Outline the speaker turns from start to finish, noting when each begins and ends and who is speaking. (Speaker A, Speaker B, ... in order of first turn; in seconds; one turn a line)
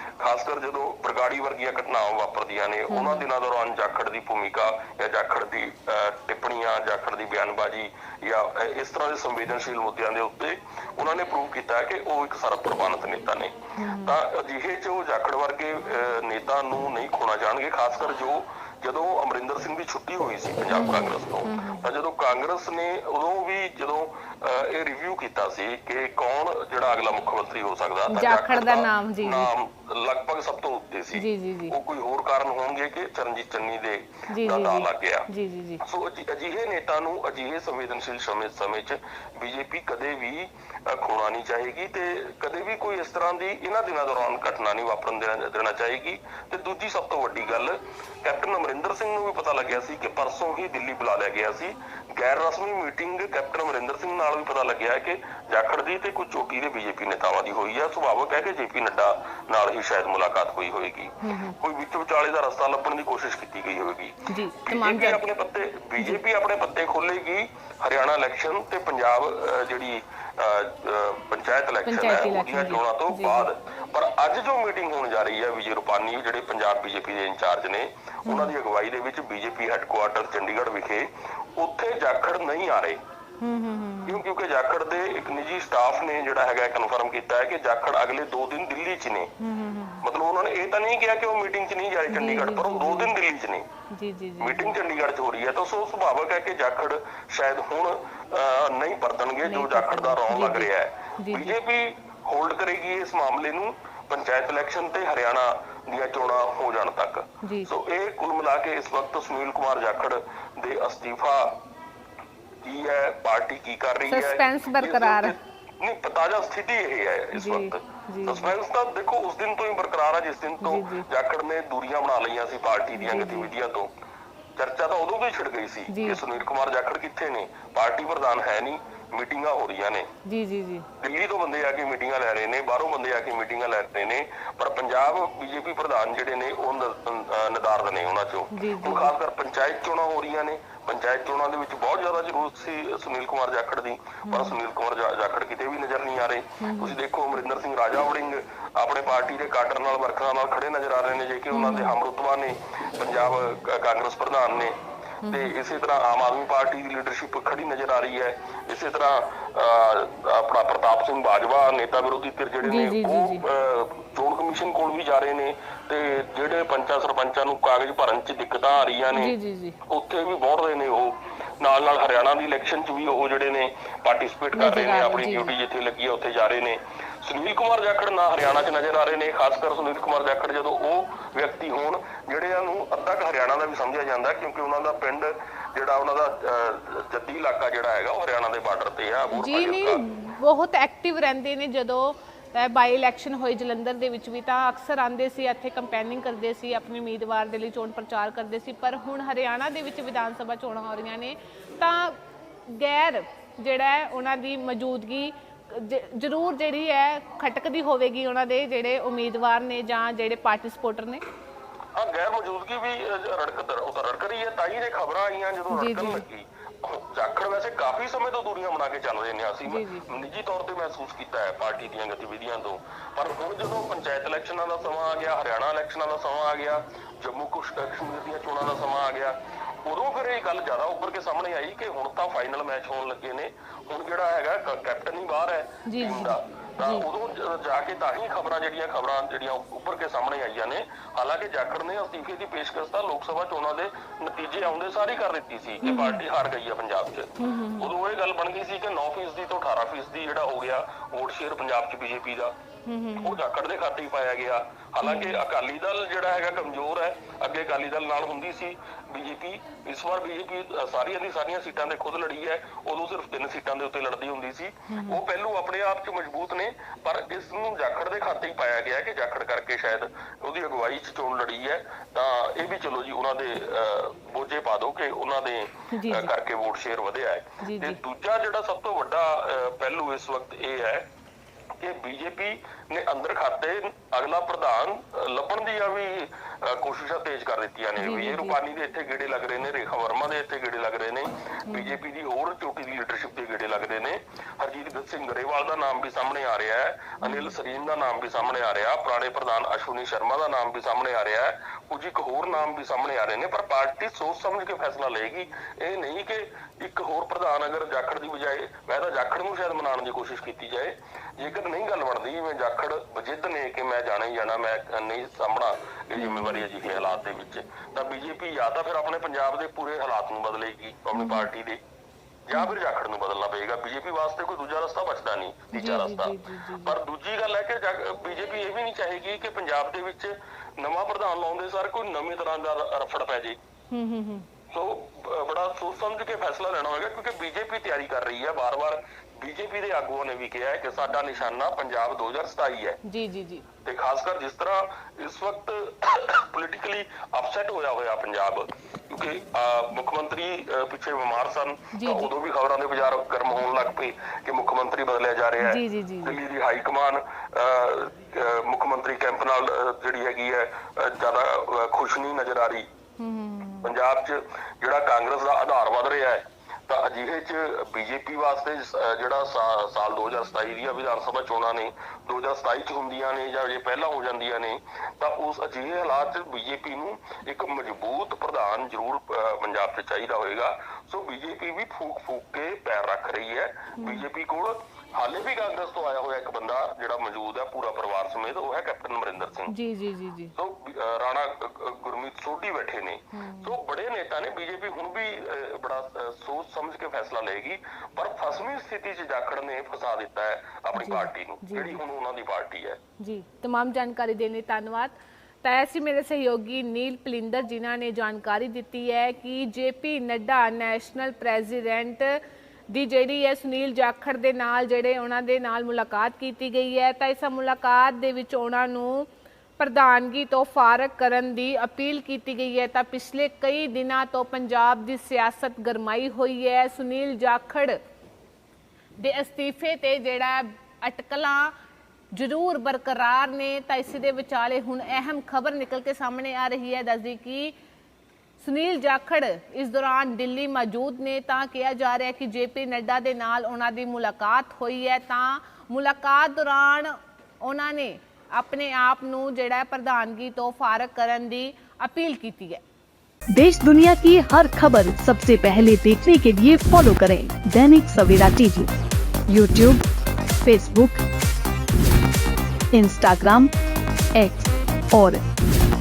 Speaker A: 0.2-35.3
Speaker B: 2.9-3.3
Speaker B: 13.8-14.2
Speaker B: 20.7-21.9
Speaker B: 28.1-29.5
Speaker B: 31.1-31.8
Speaker B: 34.3-35.8
Speaker A: 35.8-83.0
Speaker B: 61.2-61.5
Speaker B: 64.3-65.2
Speaker B: 71.9-73.5
Speaker B: 78.3-78.5
Speaker B: 83.4-84.2
Speaker A: 84.1-89.3
Speaker B: 89.4-90.0
Speaker A: 90.0-93.7
Speaker B: 92.1-93.1
Speaker B: 93.9-94.8
Speaker A: 94.4-111.6
Speaker B: 99.5-101.6
Speaker B: 107.4-107.7
Speaker A: 112.6-123.9
Speaker B: 114.1-115.4
Speaker B: 117.3-118.5
Speaker B: 120.6-121.1
Speaker B: 123.0-123.5
Speaker A: 124.6-130.1
Speaker B: 125.9-126.2
Speaker B: 130.2-130.9
Speaker A: 131.0-190.0
Speaker B: 138.5-139.1
Speaker B: 144.2-144.6
Speaker B: 146.6-147.0
Speaker B: 151.5-151.9
Speaker B: 155.2-155.5
Speaker B: 162.6-163.4
Speaker B: 169.1-169.8
Speaker B: 174.5-175.5
Speaker B: 189.3-202.2
Speaker B: 202.7-211.2
Speaker A: 211.9-252.5
Speaker B: 215.7-216.2
Speaker B: 219.7-220.1
Speaker B: 235.9-237.1
Speaker B: 245.8-246.2
Speaker B: 247.4-247.9
Speaker B: 252.8-253.4
Speaker A: 253.2-281.1
Speaker B: 255.0-255.4
Speaker B: 264.9-265.2
Speaker B: 275.9-276.3
Speaker B: 277.6-278.0
Speaker A: 281.8-321.8
Speaker B: 288.0-288.6
Speaker B: 291.7-292.0
Speaker B: 297.2-297.5
Speaker B: 316.2-316.7
Speaker B: 321.1-321.5
Speaker A: 322.5-333.6
Speaker B: 325.7-327.0
Speaker B: 333.9-334.5
Speaker A: 334.7-343.0
Speaker B: 343.0-343.6
Speaker A: 343.8-362.9
Speaker B: 351.9-352.3
Speaker B: 355.6-356.4
Speaker B: 363.2-363.9
Speaker A: 363.8-389.7
Speaker B: 384.0-384.3
Speaker B: 389.7-390.5
Speaker A: 390.6-403.0
Speaker B: 393.3-393.8
Speaker B: 400.9-402.0
Speaker B: 403.2-428.0
Speaker B: 429.2-431.7
Speaker B: 432.3-437.7
Speaker B: 438.6-452.8
Speaker C: 453.5-458.9
Speaker C: 459.5-460.0
Speaker C: 460.6-461.2
Speaker C: 462.9-463.7
Speaker C: 464.3-465.4